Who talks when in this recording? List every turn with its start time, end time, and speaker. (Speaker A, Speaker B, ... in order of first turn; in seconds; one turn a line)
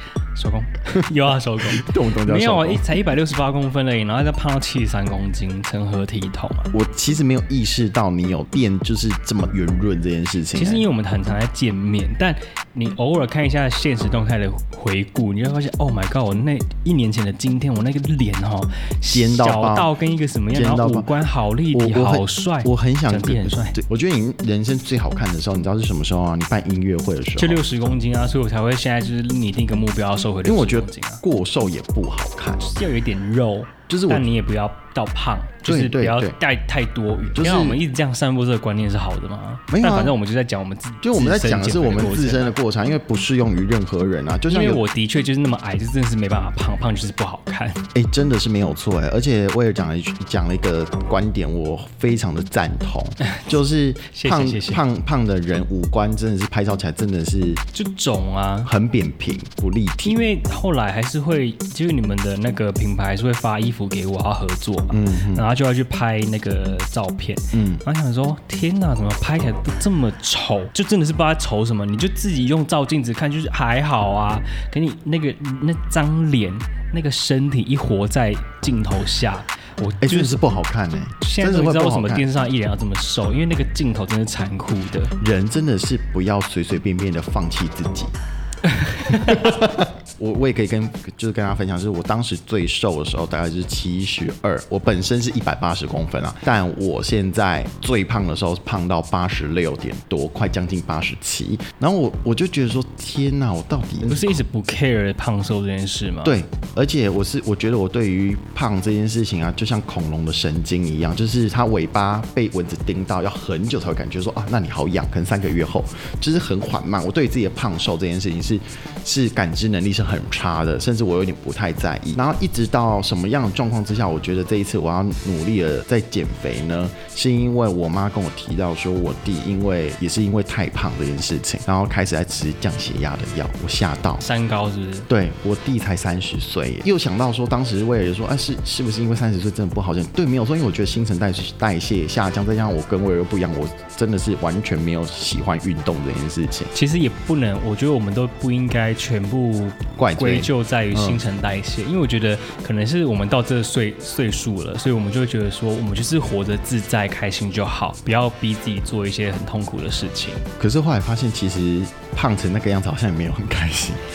Speaker A: 0.3-6.7
Speaker B: 1.7-2.8
Speaker B: 6.7-10.8
Speaker A: 10.6-23.8
Speaker B: 19.1-19.9
Speaker B: 20.5-21.1
Speaker B: 21.7-27.6
Speaker A: 27.4-31.2
Speaker B: 30.4-32.6
Speaker A: 32.6-42.5
Speaker B: 33.9-34.2
Speaker B: 35.6-36.4
Speaker B: 37.3-37.8
Speaker B: 39.7-40.2
Speaker B: 41.0-44.8
Speaker A: 44.5-47.8
Speaker B: 47.9-57.6
Speaker A: 53.2-53.5
Speaker A: 54.1-54.8
Speaker A: 57.7-58.7
Speaker B: 58.6-60.2
Speaker A: 60.0-80.3
Speaker B: 64.9-65.5
Speaker B: 67.5-67.8
Speaker B: 80.0-82.2
Speaker A: 81.2-85.1
Speaker B: 85.2-88.1
Speaker A: 88.7-89.5
Speaker B: 89.1-104.3
Speaker A: 104.0-106.4
Speaker B: 106.2-134.2
Speaker A: 134.2-135.1
Speaker B: 135.1-146.7
Speaker A: 146.7-160.5
Speaker B: 150.0-151.2
Speaker B: 160.6-164.0